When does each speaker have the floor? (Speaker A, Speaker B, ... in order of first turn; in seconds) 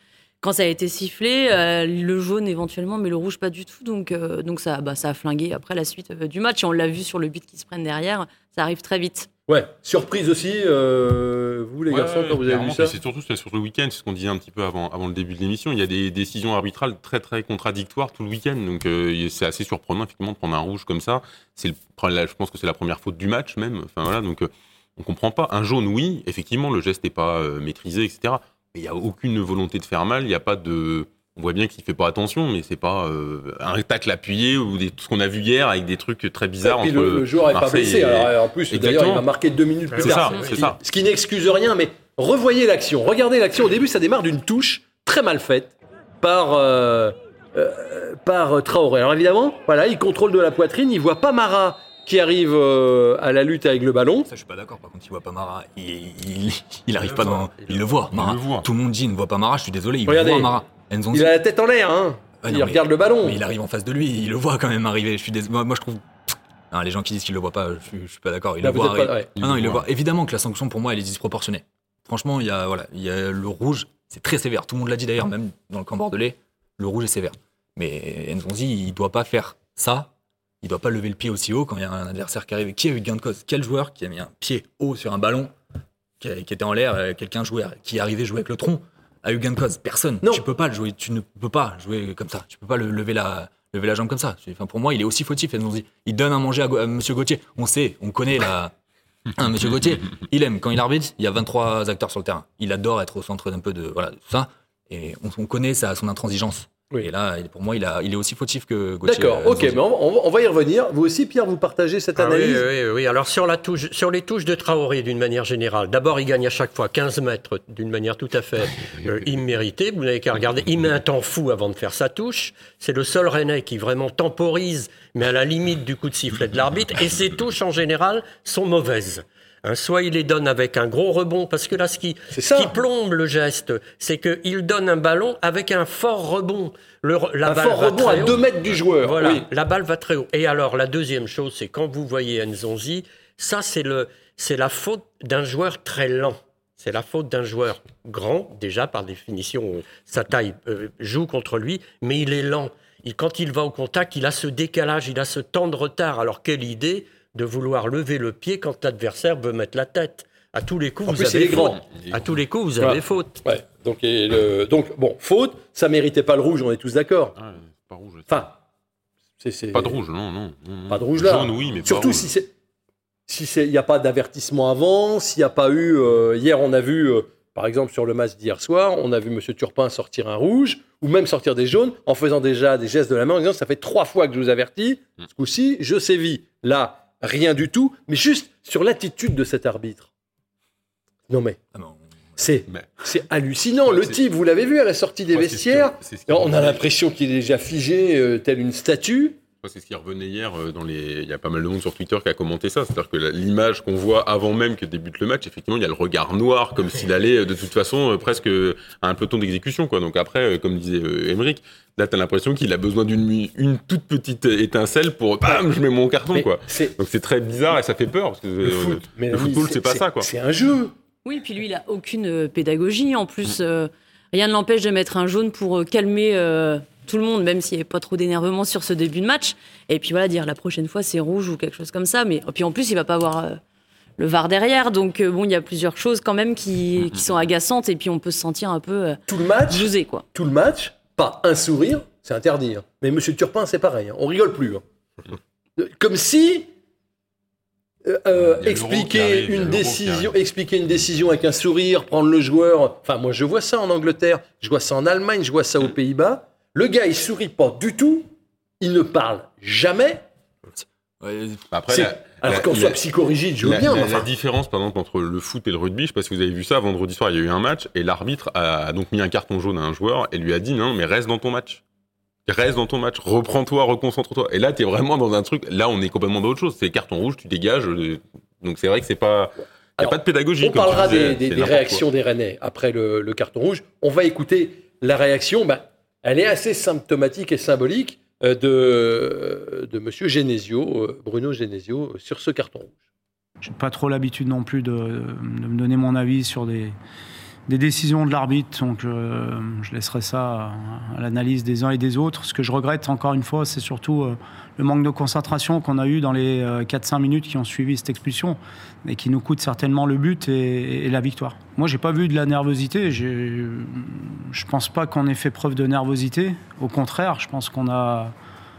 Speaker A: 0.4-9.3, 221.2-233.6, 234.2-240.2
Speaker B: 9.5-12.9, 36.6-54.3, 60.1-60.5, 61.1-63.4, 68.6-69.3, 109.1-112.6, 132.3-132.8, 137.5-139.5, 161.1-161.8, 162.8-167.4, 169.4-170.0, 170.9-172.5, 173.3-190.1, 191.3-191.6, 192.4-199.4, 216.3-216.9, 218.6-220.9, 239.3-244.8, 245.8-246.7, 248.1-258.3, 258.8-260.2, 261.9-264.3, 280.0-292.9
Speaker C: 11.9-39.2, 40.0-40.8, 58.0-58.7, 69.4-69.8, 161.6-162.3, 167.4-168.5, 169.7-172.3, 192.7-193.0, 193.8-194.2, 195.3-196.8, 199.6-220.3, 248.6-250.3, 261.7-263.0, 263.6-271.8, 272.5-282.0
Speaker D: 39.9-40.6, 112.2-163.4
Speaker E: 54.3-61.3, 62.4-66.1, 66.7-85.5, 86.2-98.7, 99.4-109.8, 191.7-192.4, 260.8-261.6
Speaker F: 293.6-297.0, 297.7-318.3